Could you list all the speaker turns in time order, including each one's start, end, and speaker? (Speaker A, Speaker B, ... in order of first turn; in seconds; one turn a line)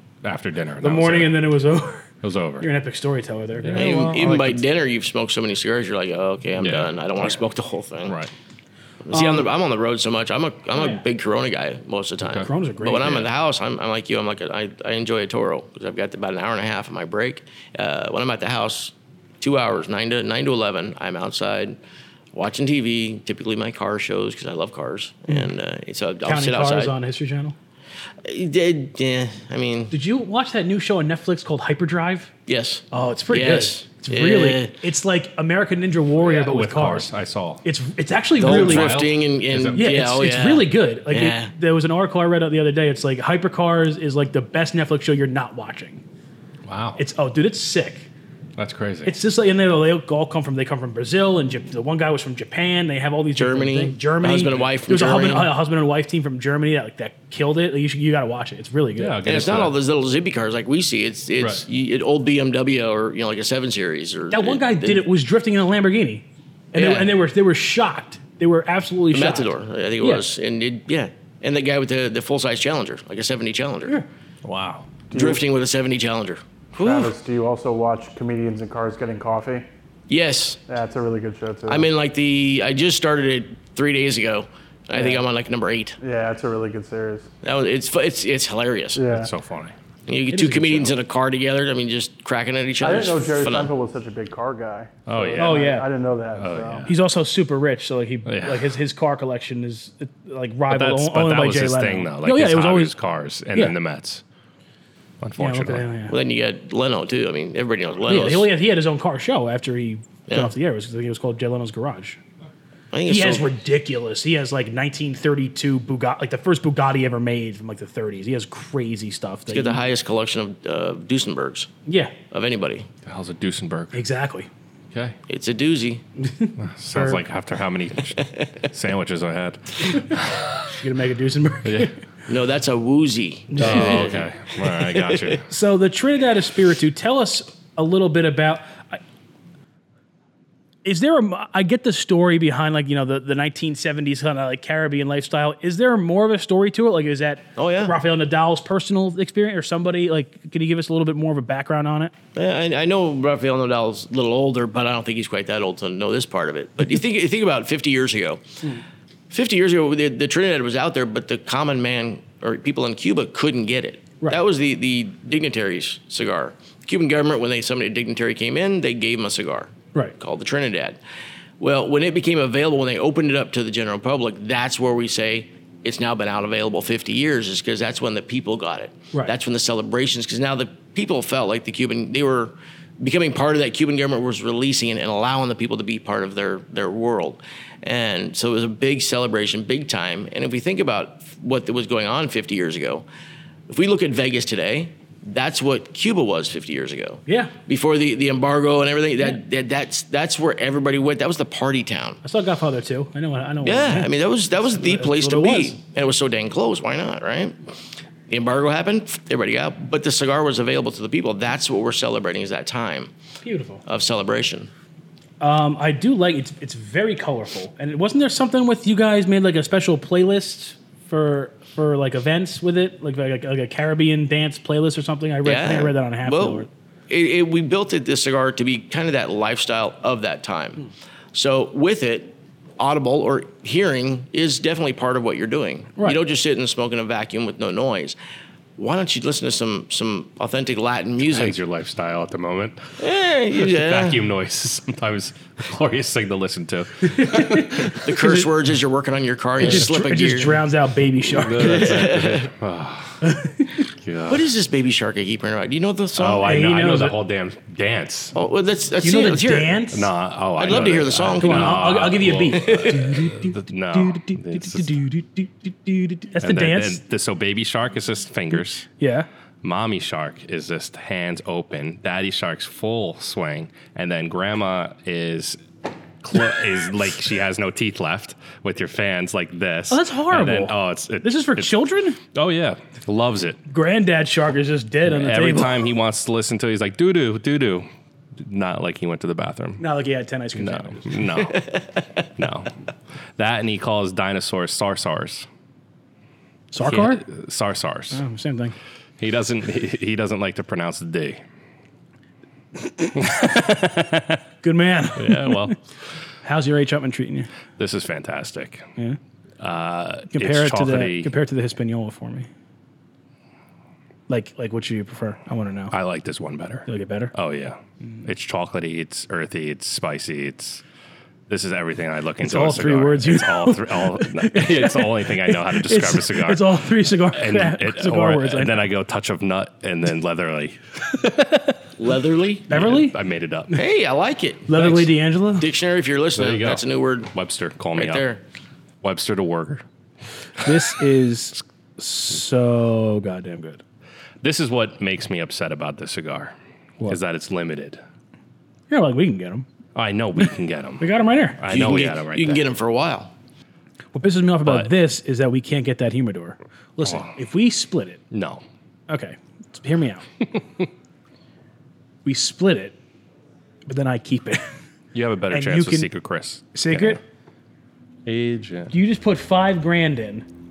Speaker A: 0.2-1.4
Speaker B: 0.8-4.6
Speaker A: 2.2-2.7
Speaker A: 3.6-4.1
Speaker C: 3.7-8.2
Speaker A: 6.6-6.9
Speaker A: 8.0-8.3
Speaker C: 9.0-21.8
Speaker B: 9.1-9.5
Speaker B: 10.7-11.0
Speaker A: 12.2-12.5
Speaker B: 12.4-13.2
Speaker C: 22.3-26.9
Speaker B: 26.2-27.5
Speaker C: 28.2-29.9
Speaker B: 29.9-32.3
Speaker C: 32.5-34.8
Speaker B: 32.9-37.1
Speaker A: 36.2-37.6
Speaker B: 37.6-39.0
Speaker A: 38.4-39.9
Speaker C: 38.4-41.5
Speaker B: 39.7-46.0
Speaker A: 46.6-47.0
Speaker B: 47.0-48.1
Speaker A: 48.6-49.1
Speaker B: 49.0-59.2
Speaker C: 53.4-55.5
Speaker A: 59.0-59.7
Speaker C: 59.2-65.1
Speaker B: 64.3-70.3
Speaker C: 66.7-67.1
Speaker C: 69.1-74.0
Speaker A: 74.4-74.8
Speaker D: 75.1-75.4
Speaker C: 75.1-77.1
Speaker D: 76.8-79.7
Speaker C: 80.1-80.6
Speaker D: 80.7-81.9
Speaker C: 81.7-86.0
Speaker D: 84.9-85.2
Speaker D: 86.0-87.3
Speaker C: 87.4-89.0
Speaker D: 88.9-89.3
Speaker A: 89.1-89.7
Speaker C: 90.1-93.7
Speaker B: 90.3-90.9
Speaker D: 92.8-96.9
Speaker A: 95.1-95.7
Speaker B: 95.4-95.9
Speaker A: 96.3-96.9
Speaker B: 96.9-102.9
Speaker A: 98.2-98.7
Speaker A: 100.7-104.2
Speaker A: 105.2-105.8
Speaker B: 105.4-106.2
Speaker C: 106.1-108.5
Speaker B: 108.1-112.2
Speaker C: 112.9-113.5
Speaker B: 113.1-119.8
Speaker C: 119.5-121.7
Speaker B: 121.9-122.1
Speaker C: 122.3-122.9
Speaker A: 123.0-124.0
Speaker B: 123.9-124.5
Speaker C: 125.3-126.0
Speaker B: 126.2-127.2
Speaker A: 126.6-130.7
Speaker B: 130.7-131.9
Speaker A: 131.6-131.9
Speaker C: 132.3-135.4
Speaker B: 133.5-134.0
Speaker A: 133.6-135.5
Speaker B: 135.5-139.0
Speaker B: 140.8-152.1
Speaker C: 147.6-147.9
Speaker C: 152.3-158.4
Speaker C: 159.3-171.0
Speaker C: 171.6-193.0
Speaker C: 193.7-202.2
Speaker B: 197.2-197.5
Speaker B: 202.2-204.1
Speaker C: 203.6-207.6
Speaker B: 204.6-205.8
Speaker C: 208.3-213.1
Speaker B: 213.4-213.8
Speaker C: 213.9-214.7
Speaker B: 215.4-226.7
Speaker C: 225.4-238.2
Speaker C: 238.8-241.6
Speaker A: 241.3-242.9
Speaker C: 243.0-244.2
Speaker A: 243.6-248.1
Speaker B: 247.1-248.5
Speaker C: 247.9-250.6
Speaker B: 249.6-251.9
Speaker A: 251.3-253.3
Speaker C: 251.6-252.5
Speaker B: 253.2-253.8
Speaker A: 253.9-254.4
Speaker C: 254.3-256.5
Speaker A: 256.2-258.3
Speaker B: 256.4-257.1
Speaker C: 258.3-259.8
Speaker B: 259.0-260.1
Speaker A: 259.9-264.9
Speaker C: 260.6-261.9
Speaker B: 261.2-267.0
Speaker C: 262.5-263.2
Speaker A: 266.4-268.9
Speaker B: 268.9-269.3
Speaker A: 269.6-275.6
Speaker A: 276.2-283.6
Speaker B: 279.9-282.2
Speaker B: 283.7-285.8
Speaker A: 285.1-289.8
Speaker B: 289.8-291.2
Speaker A: 290.6-291.6
Speaker C: 291.4-292.2
Speaker A: 292.4-292.7
Speaker A: 293.4-295.5
Speaker B: 296.7-297.2
Speaker A: 296.8-298.2
Speaker B: 298.1-298.7
Speaker A: 299.2-301.4
Speaker A: 303.1-304.4
Speaker B: 304.6-305.7
Speaker A: 305.1-305.8
Speaker B: 306.4-307.5
Speaker A: 307.8-308.9
Speaker A: 309.6-311.3
Speaker B: 310.3-312.5
Speaker B: 314.3-315.9
Speaker A: 315.9-320.8
Speaker B: 316.9-317.3
Speaker A: 321.5-331.6
Speaker B: 322.4-328.9
Speaker C: 332.0-332.7
Speaker B: 332.7-333.1
Speaker A: 332.7-333.8
Speaker C: 333.7-335.0
Speaker B: 334.7-335.7
Speaker C: 335.6-337.3
Speaker A: 336.4-338.2
Speaker C: 337.9-338.4
Speaker A: 339.0-339.8
Speaker B: 340.6-343.8
Speaker A: 344.4-346.5
Speaker A: 347.0-348.0
Speaker B: 348.9-349.7
Speaker A: 349.9-351.0
Speaker B: 351.0-351.6
Speaker A: 351.6-352.6
Speaker C: 351.7-353.3
Speaker B: 354.1-358.2
Speaker A: 354.6-354.9
Speaker A: 358.3-358.6
Speaker B: 359.1-360.3
Speaker B: 362.2-362.9
Speaker B: 363.9-364.6
Speaker A: 365.1-367.2
Speaker B: 365.5-366.1
Speaker B: 366.7-367.2
Speaker A: 368.2-368.9
Speaker B: 368.9-370.4